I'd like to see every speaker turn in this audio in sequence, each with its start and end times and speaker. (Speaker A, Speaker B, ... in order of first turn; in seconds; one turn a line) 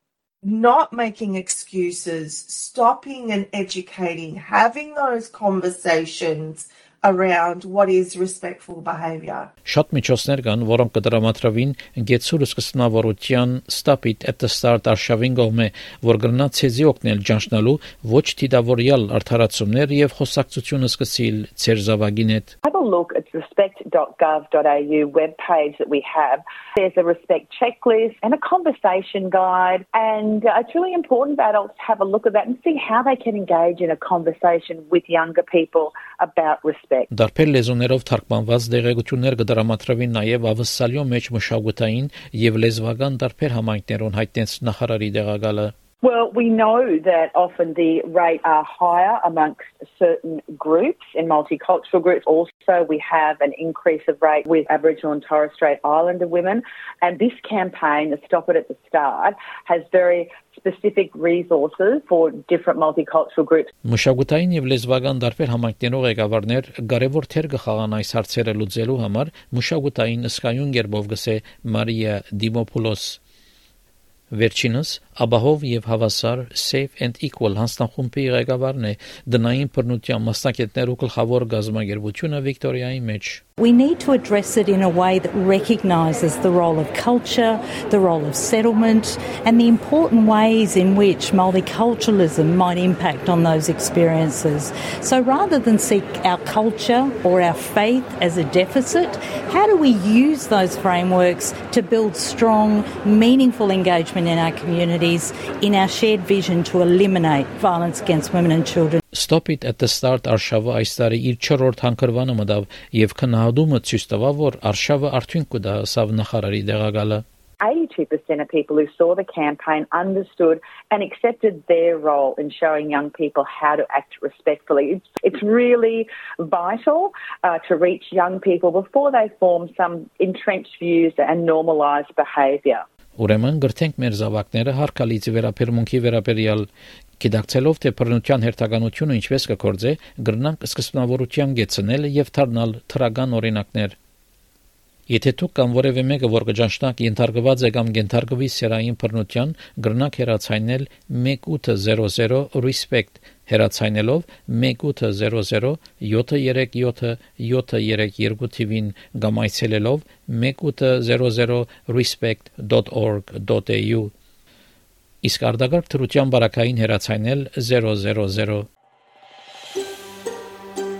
Speaker A: 0.4-9.5
Speaker B: 9.7-22.5
Speaker C: 22.6-37.1
Speaker B: 37.1-45.7
Speaker C: 46.0-63.7
Speaker B: 63.8-73.2
Speaker B: 74.3-83.4
Speaker D: 83.6-109.0
Speaker B: 109.1-117.2
Speaker C: 117.6-132.8
Speaker B: 133.2-136.7
Speaker B: 137.2-143.9
Speaker B: 145.1-164.1
Speaker B: 165.2-168.7